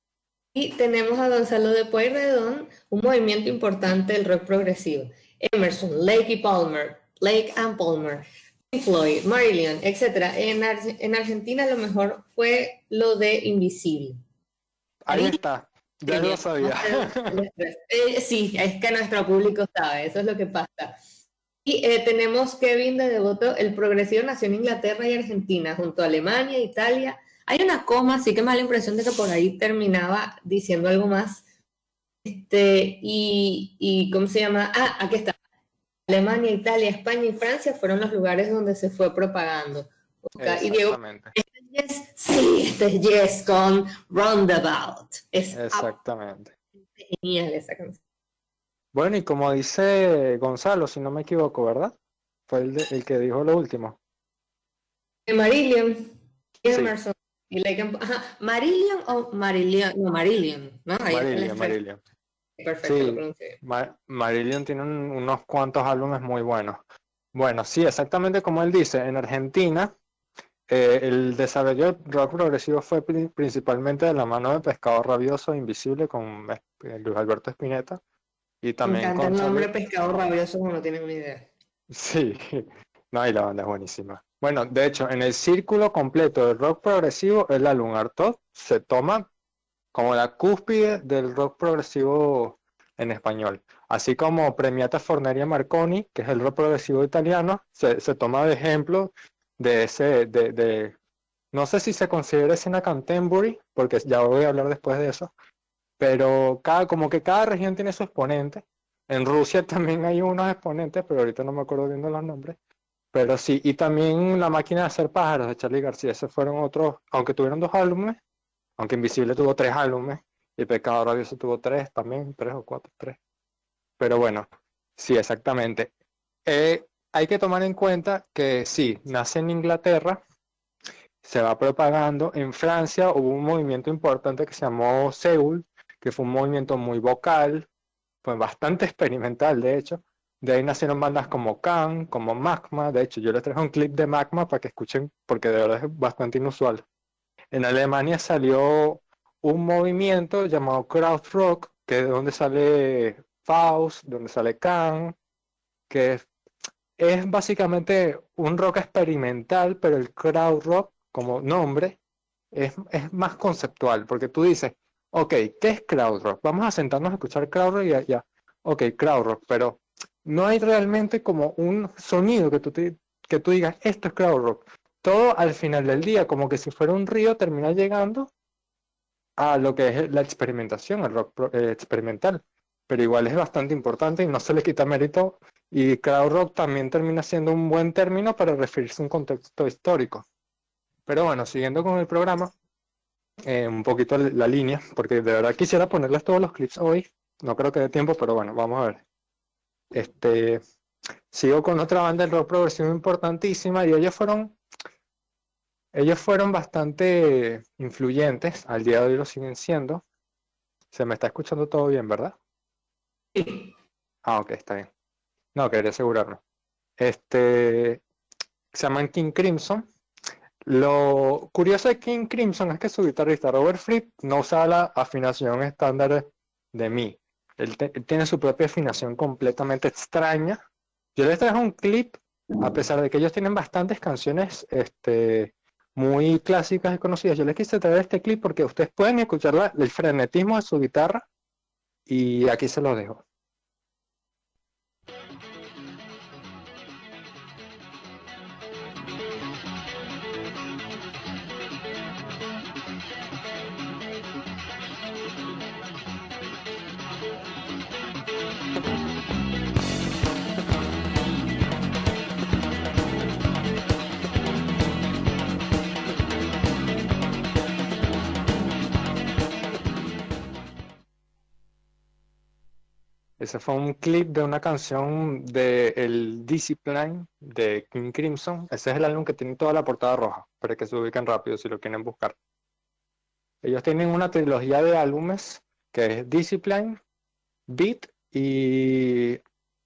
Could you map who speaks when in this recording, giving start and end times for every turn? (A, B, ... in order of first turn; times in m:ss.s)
0:00.6-0:14.2 A
0:15.0-0:17.4 B
0:15.1-0:15.4 A
0:16.1-0:21.0 A
0:21.6-0:31.4 A
0:32.2-0:35.4 A
0:36.1-0:45.9 A
0:40.4-0:41.3 B
0:45.5-0:46.5 B
0:47.0-0:48.0 A
0:48.9-0:52.0 B
0:52.5-0:54.0 B
0:55.3-0:56.1 A
0:56.6-1:01.8 A
1:01.1-1:02.0 B
1:02.6-1:03.6 A
1:02.8-1:06.8 B
1:07.4-1:09.9 B
1:10.7-1:18.0 B
1:18.6-1:19.7 B
1:18.8-1:21.5 A
1:21.9-1:29.3 B
1:29.9-1:41.0 B
1:41.5-1:45.3 B
1:46.0-1:52.6 B
1:53.1-1:58.2 B
1:58.8-2:03.2 B
2:04.0-2:04.5 B
2:05.0-2:05.9 B
2:06.5-2:10.2 B
2:11.2-2:17.7 B
2:18.2-2:26.8 B
2:27.5-2:35.2 B
2:35.9-2:36.3 B
2:37.0-2:42.0 B
2:42.5-2:58.3 B
2:59.4-3:10.2 B
3:11.1-3:12.5 B
3:13.4-3:19.0 B
3:19.9-3:20.6 B
3:21.3-3:24.6 B
3:25.9-3:30.0 B
3:30.9-3:32.4 B
3:33.4-3:33.7 A
3:34.2-3:34.9 B
3:35.5-3:36.4 B
3:37.0-3:38.0 B
3:38.7-3:39.8 B
3:40.6-3:50.6 B
3:51.2-4:01.3 B
4:02.1-4:03.2 B
4:33.4-4:42.4 B
4:43.6-4:47.0 B
4:47.7-4:49.4 B